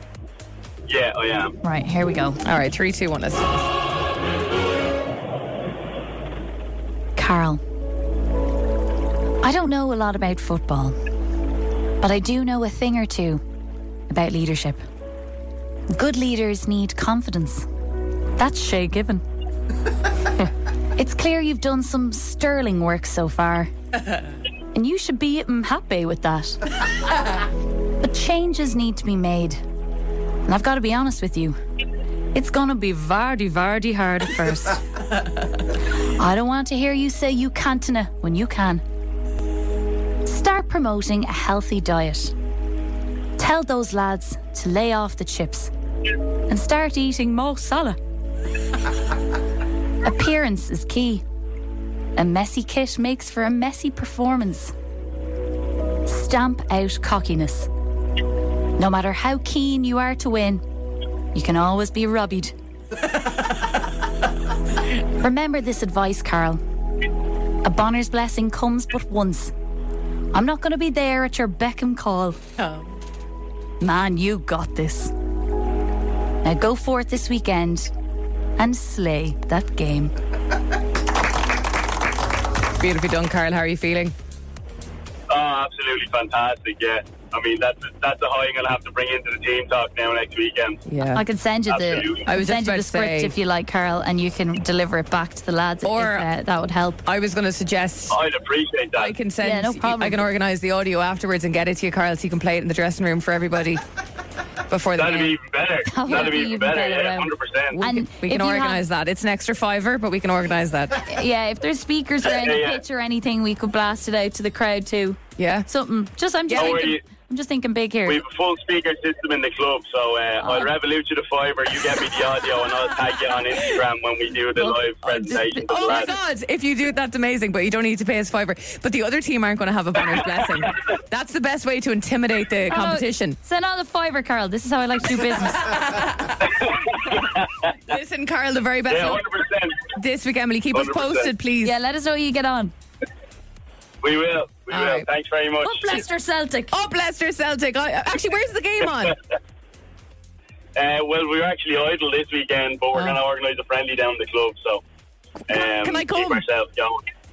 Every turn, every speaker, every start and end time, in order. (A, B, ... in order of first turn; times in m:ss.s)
0:00.9-0:01.6 A
0:01.6-0:02.4 B
0:02.4-0:03.5 C
0:07.2-0:07.6 B
0:09.4-0:11.0 B
0:12.0-0:13.4 B
0:14.1-0:14.8 B
0:15.9-0:17.6 B
0:18.4-0:19.2 B
0:21.0-0:23.7 B
0:24.7-0:26.7 B
0:28.0-0:29.6 B
0:30.5-0:31.6 B
0:32.3-0:34.8 B
0:36.2-0:38.8 B
0:40.2-0:42.3 B
0:43.4-0:45.7 B
0:46.5-0:48.0 B
0:50.0-0:51.2 B
0:52.2-0:54.7 B
0:56.0-0:57.7 B
0:58.8-1:00.6 B
1:01.3-1:02.5 B
1:05.2-1:06.6 B
1:07.6-1:09.5 B
1:10.3-1:12.4 B
1:12.6-1:12.9 C
1:13.8-1:15.1 B
1:16.4-1:17.9 B
1:18.6-1:20.1 B
1:22.8-1:24.1 C
1:25.3-1:30.8 A
1:30.9-1:31.2 C
1:31.1-1:37.0 B
1:31.7-1:32.3 A
1:32.2-1:33.3 C
1:35.8-1:36.3 C
1:37.0-1:38.2 C
1:38.1-1:39.2 A
1:38.9-1:43.8 C
1:39.4-1:40.2 B
1:44.7-1:45.3 C
1:45.0-1:47.8 A
1:45.8-1:48.8 B
1:46.1-1:46.3 C
1:47.7-1:51.1 C
1:51.0-1:58.2 B
1:52.2-1:52.8 A
1:55.4-1:55.7 C
1:56.5-1:56.9 C
1:56.6-1:57.0 A
1:58.0-2:06.1 A
2:05.0-2:13.4 C
2:05.2-2:06.1 B
2:12.7-2:15.9 B
2:15.6-2:16.6 C
2:16.4-2:17.7 A
2:17.7-2:19.2 C
2:18.9-2:19.9 A
2:19.9-2:21.7 C
2:20.7-2:21.3 A
2:21.6-2:22.7 B
2:24.0-2:26.0 A
2:24.7-2:25.1 C
2:25.6-2:26.8 B
2:26.7-2:29.2 C
2:30.8-2:34.8 A
2:32.9-2:33.2 C
2:35.5-2:36.4 C
2:35.5-2:37.0 A